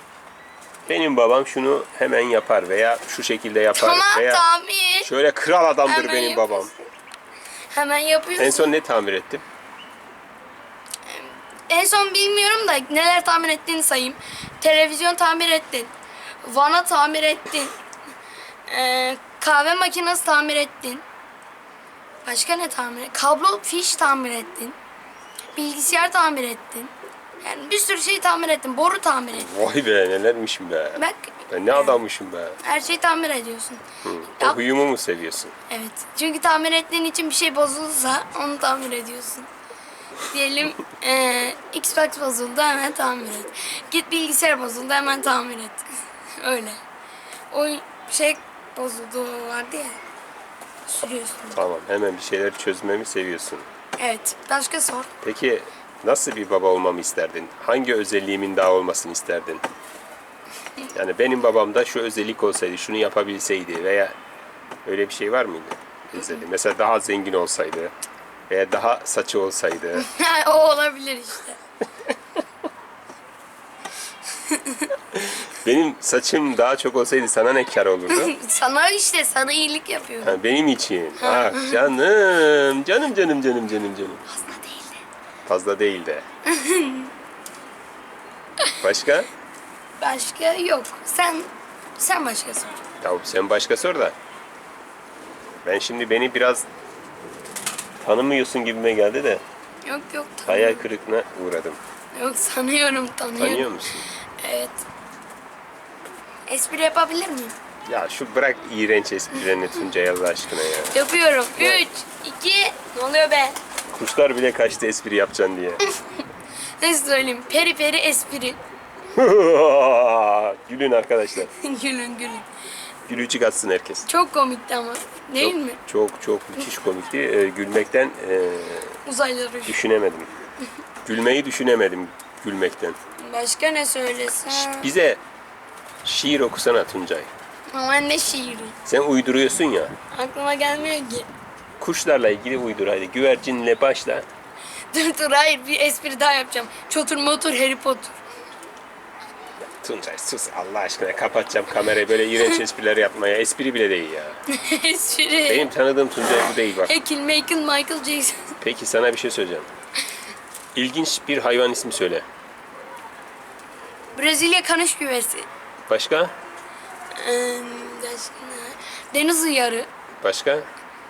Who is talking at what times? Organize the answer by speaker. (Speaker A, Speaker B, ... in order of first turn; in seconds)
Speaker A: 0.9-4.4, 5.0-6.7, 8.4-9.4, 29.3-32.6, 34.0-35.5, 51.5-53.6, 55.2-59.6, 60.9-64.1, 64.8-67.9, 68.5-70.1, 75.1-78.3, 80.2-84.2, 85.5-86.2, 88.8-89.3, 93.0-94.2, 95.7-96.7, 98.0-99.4, 100.5-101.8, 103.4-104.1, 107.9-111.0, 111.6-111.8, 113.9-115.8, 119.1-121.5, 123.1-124.1, 125.4-129.0, 129.7-130.3, 131.0-133.0, 134.5-135.2, 136.0-137.3, 138.9-139.9, 141.8-144.3, 149.6-154.4, 155.5-156.9, 158.6-159.7, 160.8-162.3, 165.9-166.3, 170.2-170.7
Speaker B: 3.8-5.1, 5.8-6.9, 7.7-8.7, 11.1-15.9, 16.4-17.7, 18.7-21.0, 22.2-24.8, 25.6-29.5, 31.0-32.0, 32.6-33.8, 35.7-39.5, 40.2-45.8, 46.4-46.8, 47.5-50.0, 50.9-51.6, 54.0-55.1, 70.0-71.6, 74.4-74.9, 78.1-80.4, 81.2-81.9, 84.3-85.0, 86.5-87.1, 90.0-92.8, 99.8-100.9, 102.2-104.8, 106.5-107.5, 110.9-113.6, 116.8-118.6, 121.5-122.5, 124.1-125.8, 129.1-129.8, 133.2-134.9, 137.7-138.8, 140.1-141.3, 144.9-148.2, 154.5-155.7, 156.8-158.5, 164.2-165.5, 167.2-169.9